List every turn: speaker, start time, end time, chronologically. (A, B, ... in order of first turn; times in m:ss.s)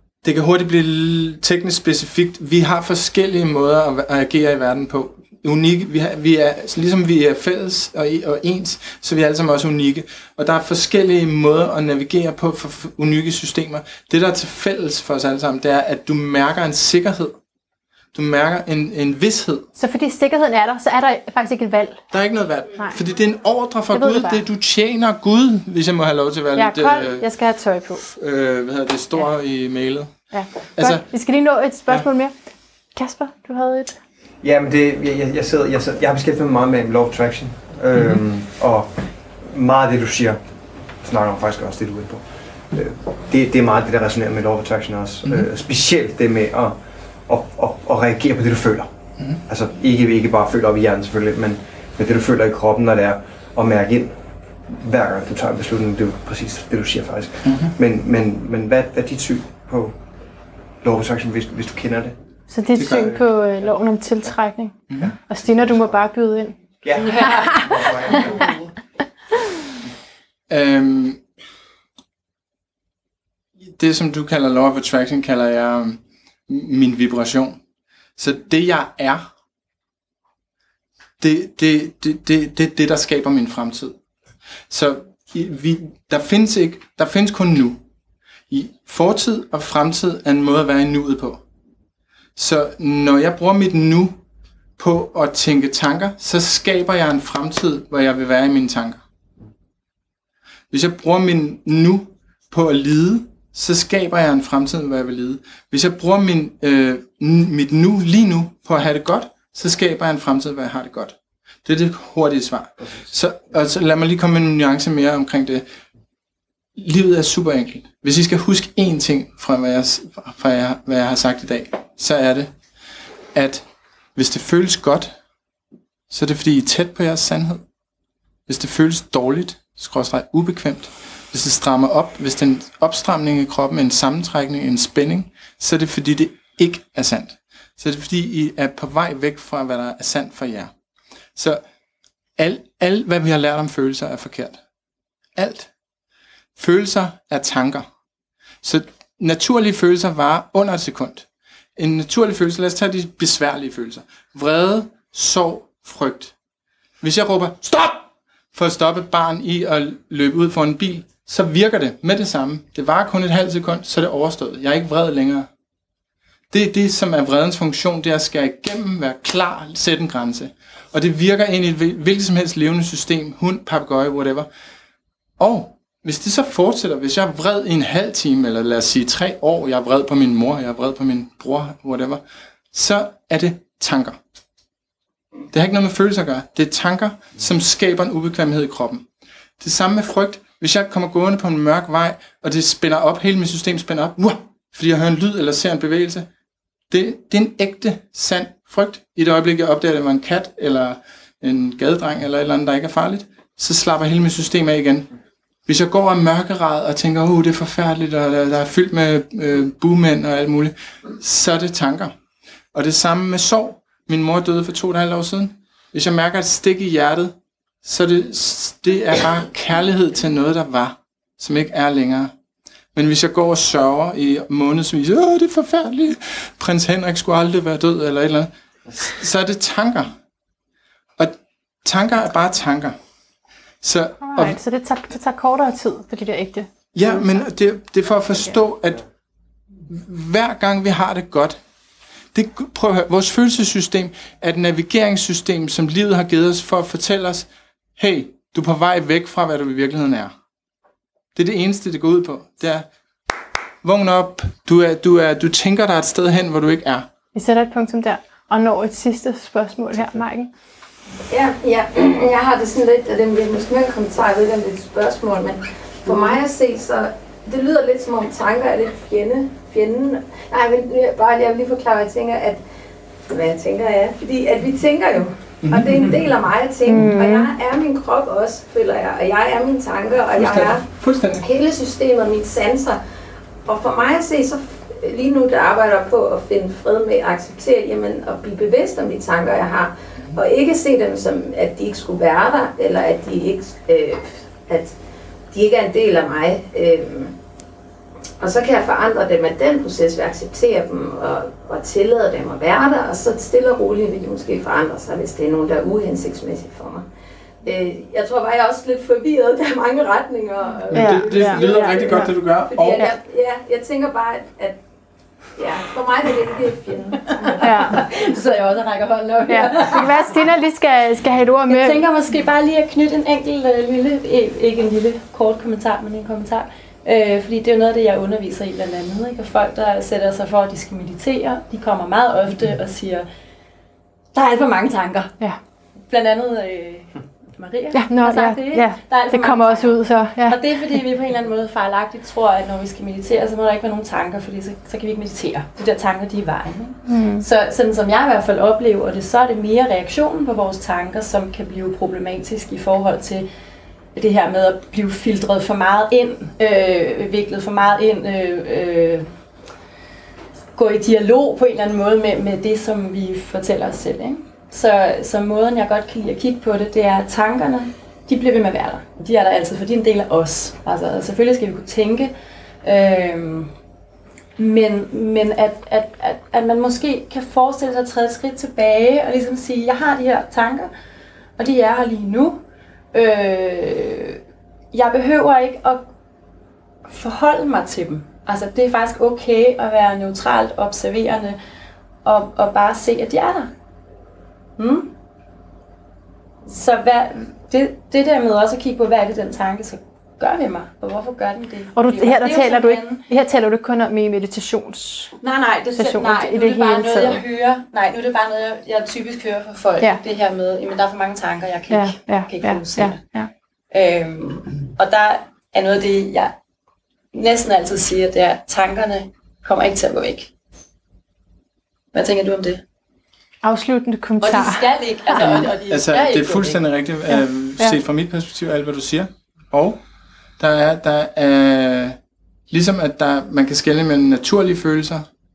0:00.2-0:17.4 A
0:18.1-0:19.6 A
0:19.8-0:22.0 B
0:22.1-0:27.3 A
0:23.9-0:24.4 B
0:26.6-0:28.0 B
0:28.0-0:30.1 A
0:30.3-0:32.4 B
0:30.8-0:31.1 A
0:32.9-0:34.0 B
0:34.4-0:40.4 C
0:41.0-0:46.8 C
0:47.3-0:48.9 C
0:49.5-1:00.0 C
0:57.4-0:57.7 A
1:00.8-1:02.2 C
1:02.5-1:06.6 B
1:02.8-1:03.2 C
1:06.8-1:08.6 C
1:07.0-1:08.5 D
1:10.5-1:11.2 A
1:13.8-1:17.6 A
1:18.2-1:19.3 A
1:21.2-1:24.0 A
1:24.7-1:27.8 A
1:28.5-1:31.4 A
1:32.4-1:34.2 A
1:34.8-1:39.0 A
1:40.7-1:55.6 A
1:56.7-2:02.5 A
2:03.3-2:05.2 A
2:06.1-2:07.6 A
2:08.5-2:20.7 A
2:21.4-2:21.6 A
2:22.4-2:24.6 A
2:25.4-2:25.7 A
2:26.6-2:27.9 A
2:28.6-2:36.4 A
2:37.0-2:45.5 A
2:46.5-2:54.5 A
2:55.4-3:04.2 A
3:05.5-3:09.0 A
3:09.6-3:16.3 A
3:16.9-3:25.1 A
3:25.6-3:32.1 A
3:32.7-3:42.3 A
3:42.9-3:50.2 A
3:51.2-3:53.0 A
3:53.8-3:54.6 A
3:54.2-3:57.4 B
3:56.9-3:59.0 A
3:59.8-4:01.6 A
4:02.3-4:10.3 A
4:11.4-4:12.9 A
4:13.8-4:17.1 A
4:17.3-4:20.5 B
4:21.3-4:32.6 E
4:33.3-4:43.0 E
4:35.6-4:36.3 A
4:36.8-4:37.5 B
4:40.3-4:41.4 A
4:43.6-4:55.0 E
4:55.5-4:57.4 E
4:58.4-5:07.0 E
5:07.6-5:14.8 E
5:10.9-5:13.1 A
5:10.9-5:12.3 B
5:15.6-5:18.6 E
5:17.4-5:20.4 D
5:17.6-5:18.0 B
5:19.5-5:22.0 B
5:21.7-5:33.3 D
5:34.3-5:35.3 D
5:36.1-5:53.5 D
5:37.9-5:40.6 B
5:47.1-5:47.4 B
5:54.1-5:59.3 D
6:00.8-6:12.3 D
6:12.8-6:13.7 D
6:14.6-6:20.9 D
6:21.6-6:22.6 D
6:23.1-6:24.4 D
6:24.9-6:26.0 D
6:27.0-6:31.6 D
6:32.2-6:33.7 D
6:34.8-6:35.1 D
6:36.6-6:43.2 D
6:41.9-6:45.3 B
6:45.4-6:53.2 D
6:45.9-6:47.4 B
6:51.9-6:53.5 B
6:53.9-6:56.5 D
6:57.3-7:00.5 D
7:02.1-7:02.8 D
7:03.6-7:05.7 B
7:04.4-7:06.8 D
7:05.9-7:10.0 A
7:07.3-7:08.0 B
7:10.6-7:12.2 A
7:12.7-7:15.3 A